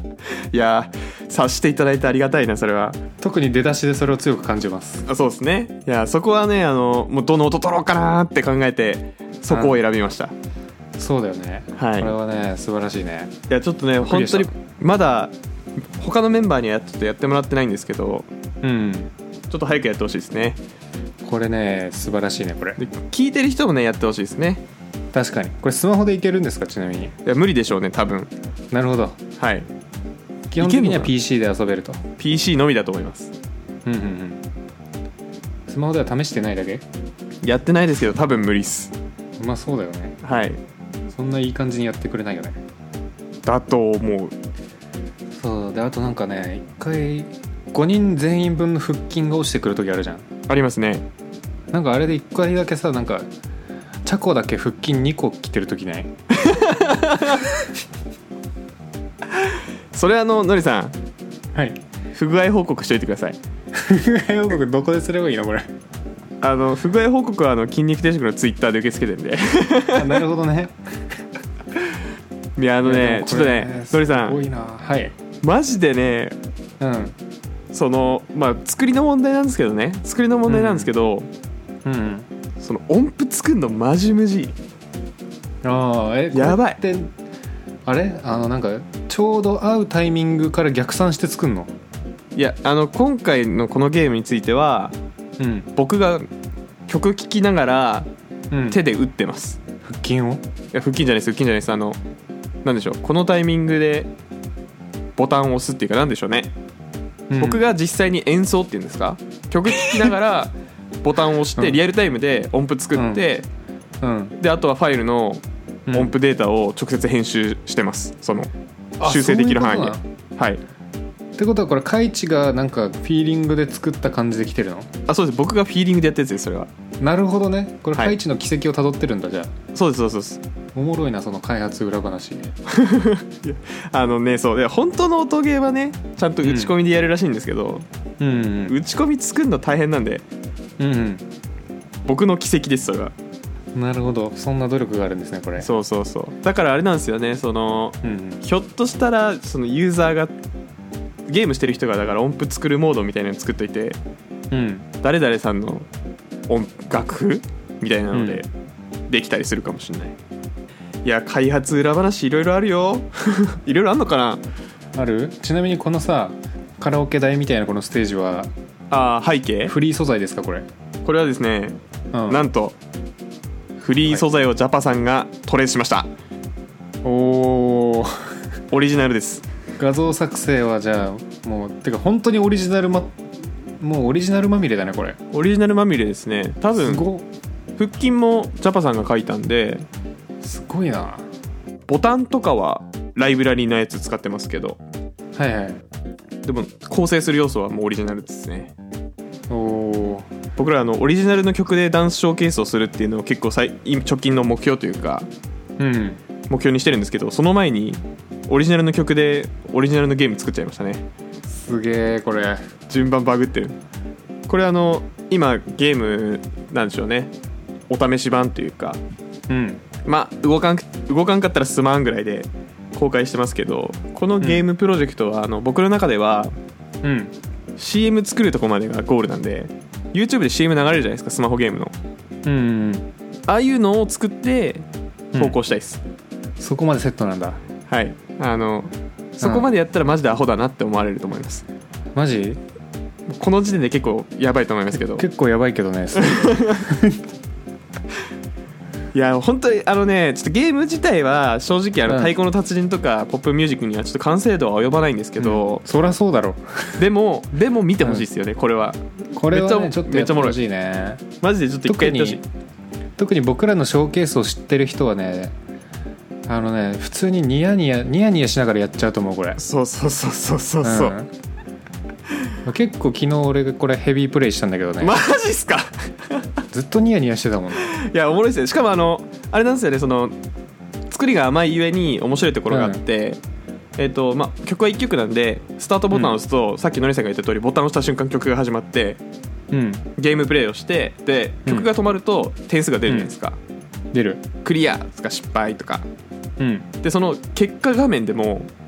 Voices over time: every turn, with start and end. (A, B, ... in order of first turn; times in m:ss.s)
0:00.5-0:03.0 A
0:03.2-0:05.1 B
0:05.1-0:10.3 A
0:09.5-0:09.8 B
0:11.0-0:13.4 B
0:11.8-0:12.1 A
0:13.5-0:15.3 A
0:14.0-0:14.5 B
0:16.0-0:18.3 A
0:18.6-0:19.1 B
0:19.5-0:20.6 A
0:21.2-0:22.8 B
0:22.8-0:24.6 A
0:25.1-0:27.2 B
0:27.2-0:28.3 A
0:28.7-0:29.2 B
0:29.4-0:29.7 A
0:30.5-0:32.0 B
0:30.6-0:31.1 A
0:32.2-0:33.3 A
0:33.8-0:34.4 B
0:35.7-0:36.8 B
0:37.4-0:38.9 A
0:39.4-0:40.2 B
0:40.2-0:40.6 A
0:41.1-0:42.6 B
0:43.4-0:44.4 A
0:45.4-0:50.3 B
0:50.5-0:51.1 A
0:51.7-0:53.3 B
0:54.0-0:56.1 B
0:56.3-0:57.4 A
0:59.3-1:01.0 A
1:01.6-1:01.8 B
1:02.1-1:03.4 A
1:03.7-1:05.7 B
1:06.4-1:10.2 A
1:09.9-1:11.1 B
1:12.6-1:14.4 A
1:12.8-1:15.2 B
1:15.4-1:16.4 A
1:16.8-1:17.2 B
1:17.7-1:21.3 A
1:20.5-1:20.9 B
1:21.8-1:22.3 B
1:22.6-1:24.6 A
1:25.6-1:27.1 B
1:26.3-1:26.8 A
1:27.9-1:31.7 B
1:32.4-1:35.0 A
1:35.4-1:35.7 B
1:35.8-1:36.3 A
1:36.9-1:38.1 A
1:38.5-1:38.8 B
1:38.7-1:39.6 A
1:39.9-1:40.4 B
1:40.7-1:42.0 A
1:42.6-1:44.1 A
1:45.2-1:46.5 A
1:47.3-1:47.6 B
1:47.4-1:53.5 A
1:52.9-1:53.2 B
1:54.0-1:54.4 B
1:54.4-1:58.5 A
1:55.9-1:56.1 B
1:59.0-2:00.0 B
1:59.0-2:00.6 A
2:01.4-2:04.9 B
2:05.1-2:06.7 A
2:07.0-2:09.5 B
2:09.7-2:10.4 A
2:10.8-2:12.5 B
2:12.7-2:17.8 A
2:16.4-2:16.8 B
2:18.2-2:18.8 B
2:18.7-2:20.2 A
2:20.8-2:21.3 B
2:22.0-2:23.1 A
2:23.8-2:25.7 B
2:25.6-2:30.4 A
2:28.0-2:28.4 B
2:31.3-2:34.0 A
2:34.5-2:34.9 B
2:35.0-2:35.9 A
2:36.5-2:38.5 A
2:38.1-2:38.4 B
2:39.1-2:40.2 A
2:41.0-2:44.4 A
2:45.0-2:48.5 B
2:48.9-2:49.7 A
2:49.7-2:50.7 B
2:51.0-2:52.8 A
2:52.1-2:52.4 B
2:53.8-2:56.1 A
2:57.0-2:58.3 B
2:58.7-2:59.4 A
2:59.8-3:03.2 B
3:03.8-3:05.2 B
3:05.3-3:07.0 A
3:06.8-3:07.3 B
3:07.8-3:09.9 A
3:10.4-3:11.2 B
3:11.9-3:14.8 A
3:15.4-3:15.8 B
3:16.4-3:18.7 A
3:19.5-3:20.3 B
3:20.6-3:25.3 A
3:25.8-3:26.2 B
3:26.5-3:31.1 A
3:31.5-3:32.6 B
3:32.9-3:33.8 A
3:34.5-3:37.3 A
3:37.9-3:39.0 A
3:39.5-3:39.8 B
3:40.0-3:46.5 A
3:44.4-3:44.7 B
3:47.0-3:47.3 B
3:47.8-3:51.9 A
3:52.4-3:53.1 B
3:53.5-3:54.9 A
3:55.4-3:56.0 A
3:56.6-3:57.6 B
3:57.9-4:01.6 A
3:59.4-3:59.7 B
4:02.2-4:02.6 B
4:03.3-4:05.2 A
4:05.0-4:07.2 B
4:06.3-4:06.8 A
4:09.1-4:15.8 A
4:12.1-4:12.3 B
4:15.4-4:17.0 B
4:17.0-4:20.6 A
4:18.0-4:18.3 B
4:19.4-4:21.3 B
4:21.4-4:22.4 A
4:21.8-4:22.5 B
4:23.2-4:25.6 B
4:26.5-4:29.6 B
4:29.6-4:31.2 A
4:30.8-4:31.3 B
4:32.6-4:35.2 B
4:35.0-4:36.4 A
4:36.7-4:38.0 B
4:37.9-4:40.4 A
4:41.1-4:43.4 A
4:42.7-4:43.0 B
4:44.0-4:49.2 A
4:49.7-4:50.1 B
4:50.2-4:53.6 A
4:53.1-4:53.3 B
4:54.1-4:54.4 B
4:54.6-4:56.0 A
4:56.6-4:56.9 B
4:57.0-4:58.7 A